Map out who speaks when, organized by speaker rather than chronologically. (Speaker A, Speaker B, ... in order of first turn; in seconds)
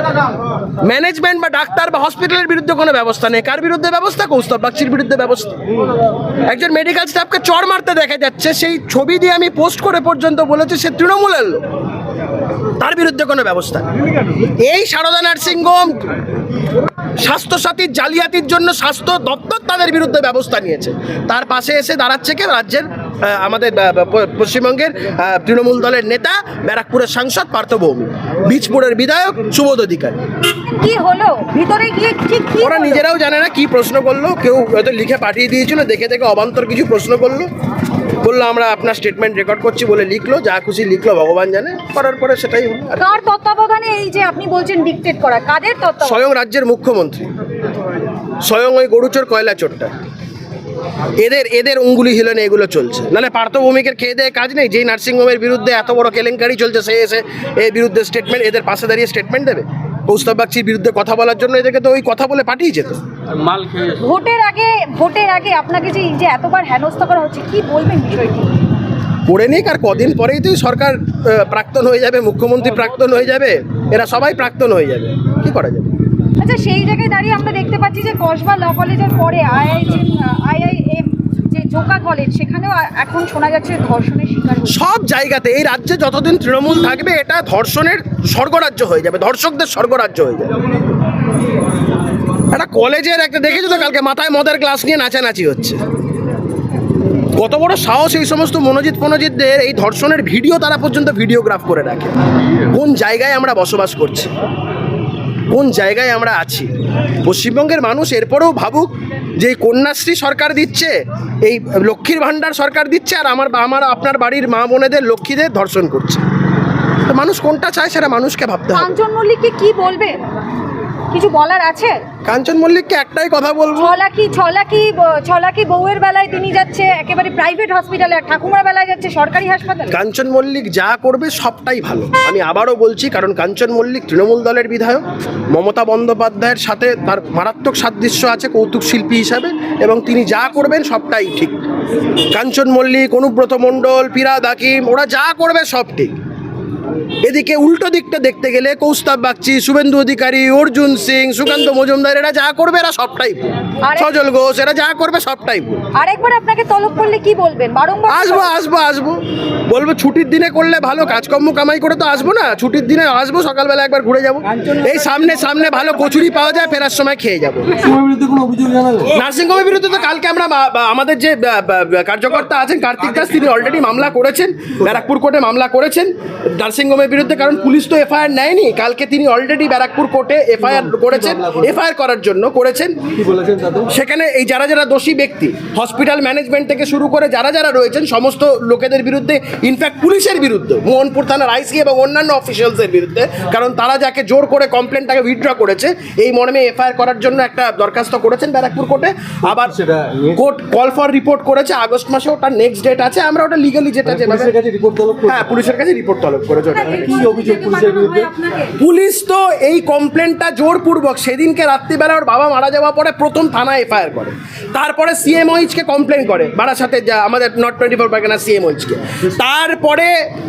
Speaker A: 0.8-5.6, 6.5-11.7, 12.8-13.9, 14.6-16.0, 17.2-30.2, 32.6-37.5, 38.2-43.0, 46.0-47.3, 48.4-49.9, 51.2-63.0, 69.3-75.9, 84.7-90.5, 92.5-95.8, 97.3-102.1, 102.7-104.3, 105.5-106.7, 107.2-116.2, 117.1-119.0, 122.2-124.0, 129.9-141.6, 142.3-146.2, 147.2-155.8, 158.1-167.8, 169.1-183.1, 183.9-199.8, 200.3-204.5, 205.3-207.2, 208.8-220.1
Speaker B: 30.5-33.0, 43.0-46.2, 64.0-68.6, 76.4-84.8, 118.7-120.2, 121.1-122.0, 123.8-129.9, 153.8-154.1, 155.9-158.5, 206.7-208.8
Speaker C: 63.4-64.0, 167.8-169.1, 180.6-181.7, 183.1-183.9, 199.4-200.4, 204.1-205.6, 206.8-208.3